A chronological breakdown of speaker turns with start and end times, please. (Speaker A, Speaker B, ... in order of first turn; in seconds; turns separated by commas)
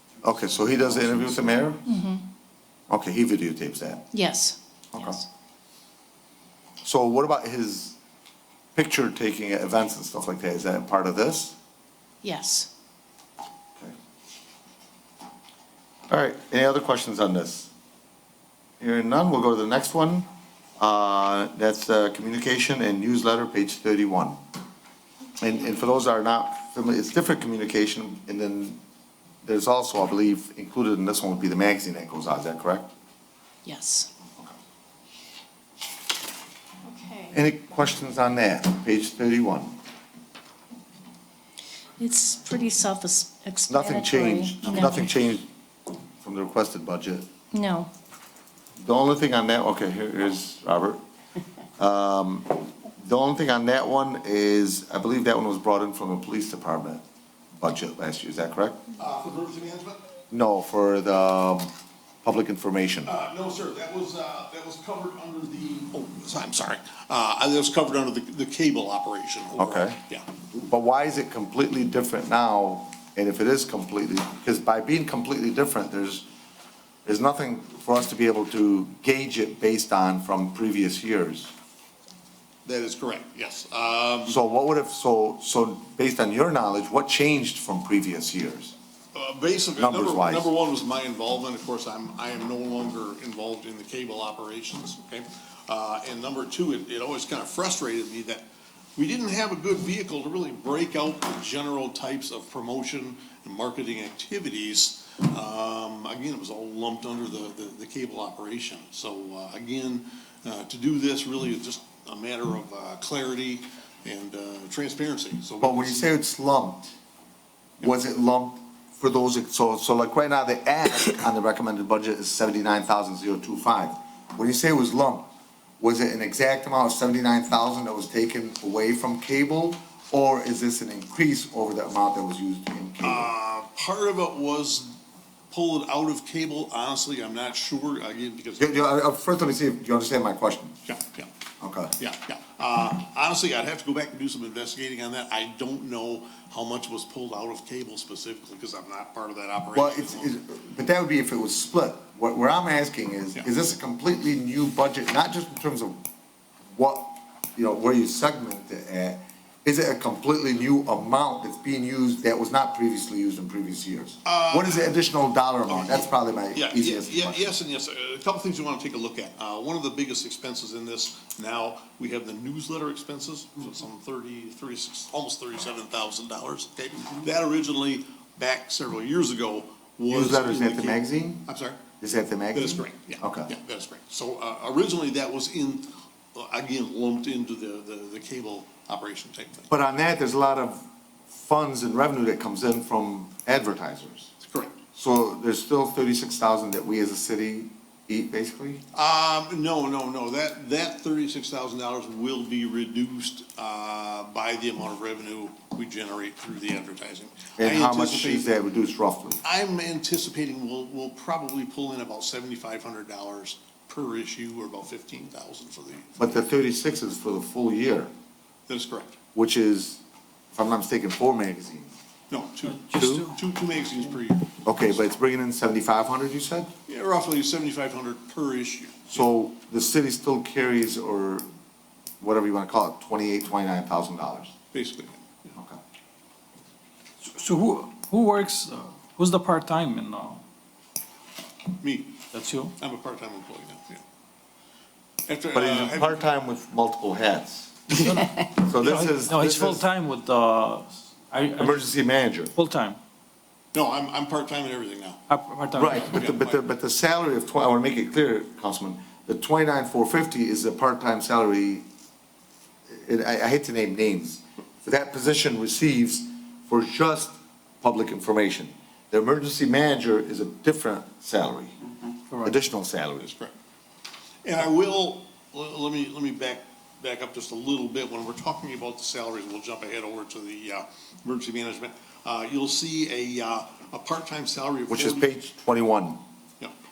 Speaker A: 0.2-1.8, Speaker B: 1.8-2.2, Speaker A: 2.9-4.0, Speaker B: 4.1-5.2, Speaker A: 4.9-5.2, Speaker A: 6.8-8.0, Speaker A: 8.8-11.6, Speaker B: 12.2-12.7, Speaker A: 16.1-17.7, Speaker A: 18.8-20.3, Speaker A: 20.8-24.4, Speaker A: 25.4-28.8, Speaker A: 29.4-32.9, Speaker B: 33.6-34.1, Speaker B: 36.9-37.4, Speaker A: 37.3-39.7, Speaker B: 42.0-45.1, Speaker A: 43.7-45.5, Speaker A: 46.2-47.2, Speaker B: 47.5-47.9, Speaker A: 48.8-51.0, Speaker A: 51.8-57.0, Speaker A: 57.5-58.8, Speaker C: 59.0-60.0, Speaker A: 60.3-61.7, Speaker A: 62.2-63.1, Speaker C: 63.0-70.2, Speaker A: 69.5-70.0, Speaker A: 70.5-76.2, Speaker A: 77.0-81.5, Speaker C: 82.7-84.3, Speaker A: 84.3-88.7, Speaker C: 89.1-116.1, Speaker A: 89.8-90.5, Speaker A: 115.6-116.9, Speaker A: 117.8-125.3, Speaker A: 125.8-133.3, Speaker C: 133.0-134.9, Speaker C: 135.5-138.9, Speaker A: 138.6-140.7, Speaker C: 140.8-141.3, Speaker A: 141.6-141.9, Speaker C: 142.0-150.3, Speaker A: 149.7-156.0, Speaker A: 156.7-167.6, Speaker C: 164.2-165.0, Speaker C: 165.7-181.8, Speaker A: 180.1-181.5, Speaker A: 182.0-183.5, Speaker C: 182.5-189.7, Speaker A: 189.7-194.3, Speaker C: 194.4-194.8, Speaker A: 194.9-198.8, Speaker C: 198.9-208.5, Speaker A: 207.6-209.4, Speaker C: 209.4-216.4, Speaker A: 216.2-218.1, Speaker C: 218.7-219.2, Speaker A: 219.3-220.0, Speaker A: 220.5-221.9, Speaker C: 222.3-224.9, Speaker D: 222.7-223.4, Speaker A: 222.9-223.2, Speaker A: 224.6-226.7, Speaker C: 226.9-229.2, Speaker A: 229.1-231.4, Speaker A: 232.2-234.5, Speaker C: 234.7-235.5, Speaker D: 237.3-240.4, Speaker C: 241.8-242.2, Speaker D: 242.3-242.7, Speaker C: 242.8-244.0, Speaker C: 245.3-246.3, Speaker A: 245.5-249.8, Speaker D: 248.0-251.9, Speaker A: 251.6-252.5, Speaker D: 252.5-253.0, Speaker C: 253.7-255.2, Speaker D: 255.3-256.2, Speaker A: 255.7-261.8, Speaker C: 255.9-256.6, Speaker A: 262.9-271.8, Speaker D: 272.3-272.6, Speaker A: 272.4-273.3, Speaker C: 273.2-273.5, Speaker C: 274.4-285.3, Speaker A: 284.9-286.2